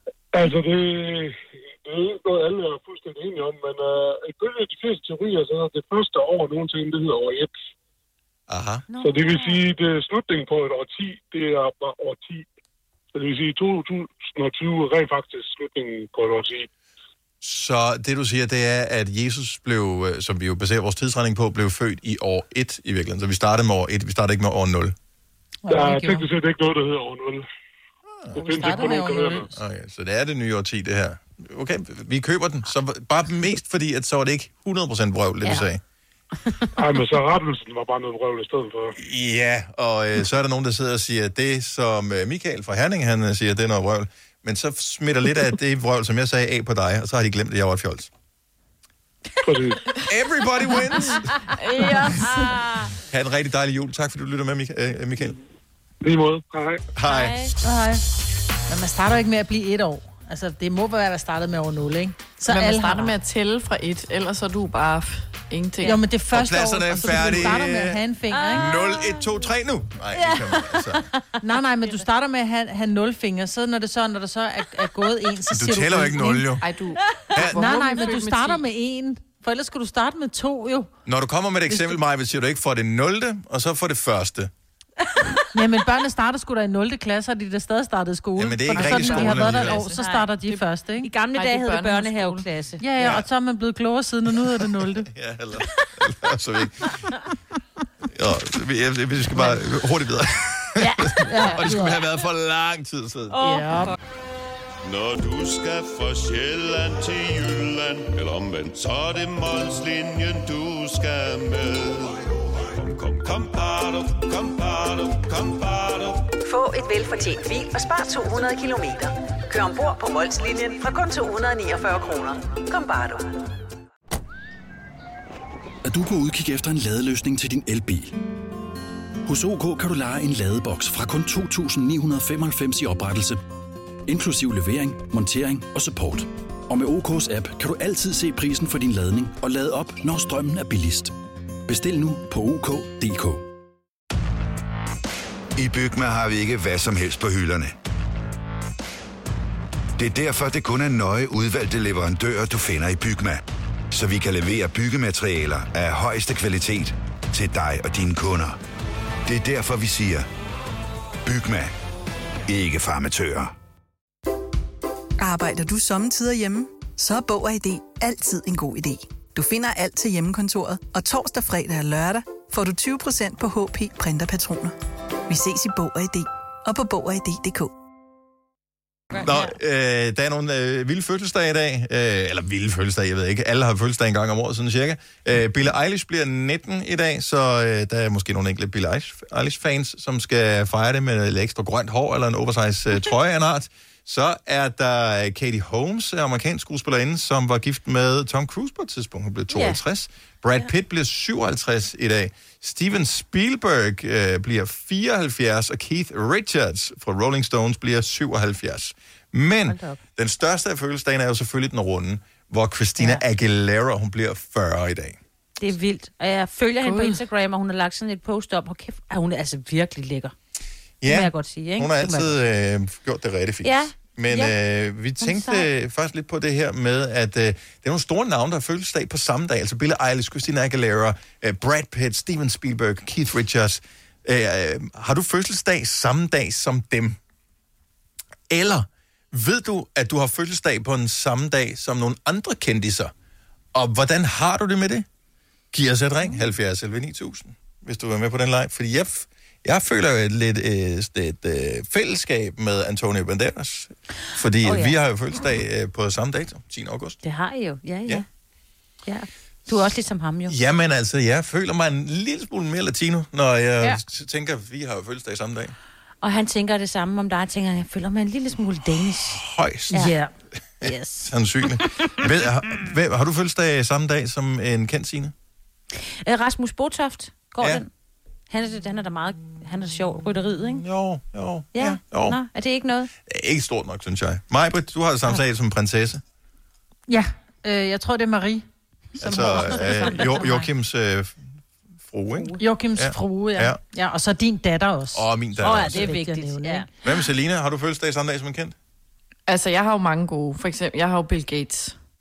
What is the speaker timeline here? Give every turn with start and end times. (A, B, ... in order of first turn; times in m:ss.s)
0:00.3-0:07.6 A
0:08.5-0:08.8 B
0:08.9-0:09.6 C
0:09.0-0:12.4 A
0:13.1-0:16.7 A
0:17.4-0:24.9 B
0:25.6-0:26.2 D
0:25.7-0:27.4 A
0:28.1-0:28.8 B
0:28.3-0:29.5 A
0:28.6-0:29.4 D
0:28.6-0:29.3 C
0:29.5-0:35.8 B
0:36.8-0:38.9 A
0:39.0-0:48.1 B
0:49.4-0:49.8 A
0:50.1-0:51.3 B
0:51.6-0:52.6 E
0:51.8-0:52.8 C
0:53.1-0:55.4 B
0:56.0-0:56.8 A
0:56.9-0:57.5 B
0:57.0-0:57.5 C
0:57.6-0:58.0 D
0:58.7-1:03.1 D
1:02.5-1:06.0 E
1:05.8-1:08.8 D
1:06.3-1:08.0 B
1:08.3-1:09.3 C
1:08.5-1:11.1 B
1:10.1-1:11.3 C
1:11.4-1:16.5 D
1:15.5-1:16.6 B
1:16.6-1:18.6 E
1:17.4-1:17.6 B
1:17.4-1:20.9 D
1:21.0-1:24.5 B
1:25.5-1:31.1 D
1:28.4-1:29.8 B
1:28.8-1:30.3 C
1:31.0-1:32.8 C
1:31.3-1:32.4 E
1:32.8-1:35.1 D
1:33.0-1:33.2 B
1:34.9-1:37.0 B
1:38.1-1:43.4 B
1:40.8-1:41.5 C
1:41.1-1:41.9 D
1:43.3-1:43.8 C
1:43.4-1:43.9 D
1:44.8-1:56.3 F
1:56.4-2:03.5 G
2:05.8-2:08.1 H
2:09.2-2:13.4 H
2:14.1-2:21.1 H
2:21.7-2:23.4 H
2:25.6-2:27.7 I
2:30.0-2:33.4 I
2:33.9-2:38.6 I
2:39.3-2:40.2 I
2:41.2-2:41.7 I
2:42.5-2:43.5 I
2:45.2-2:54.7 J
2:55.3-2:57.7 J
2:59.2-2:59.5 C
2:59.2-3:35.2 B
3:19.5-3:19.8 C
3:29.7-3:30.0 C
3:33.0-3:33.2 C
3:35.6-3:40.3 C
3:36.8-3:37.2 E
3:41.0-3:57.2 B
3:41.0-3:42.3 C
3:43.6-3:44.5 C
3:45.2-3:45.7 C
3:58.5-4:03.1 B
4:03.7-4:05.0 B
4:05.7-4:17.2 B
4:14.6-4:14.9 C
4:17.2-4:18.2 C
4:19.0-4:20.5 C
4:20.5-4:25.7 B
4:26.2-4:30.3 C
4:29.3-4:30.1 B
4:30.0-4:30.2 D
4:30.8-4:35.3 B
4:30.8-4:31.3 C
4:36.0-4:37.9 C
4:38.5-4:40.8 C
4:40.8-4:42.4 B
4:41.7-4:43.1 C
4:43.2-4:46.2 B
4:47.1-4:48.6 D
4:49.2-4:51.4 B
4:49.2-4:50.6 C
4:49.3-4:49.9 D
4:52.0-4:53.8 B
4:52.6-4:56.9 D
4:55.1-4:56.1 B
4:55.6-4:56.9 C
4:57.0-4:58.7 B
4:59.5-5:02.0 E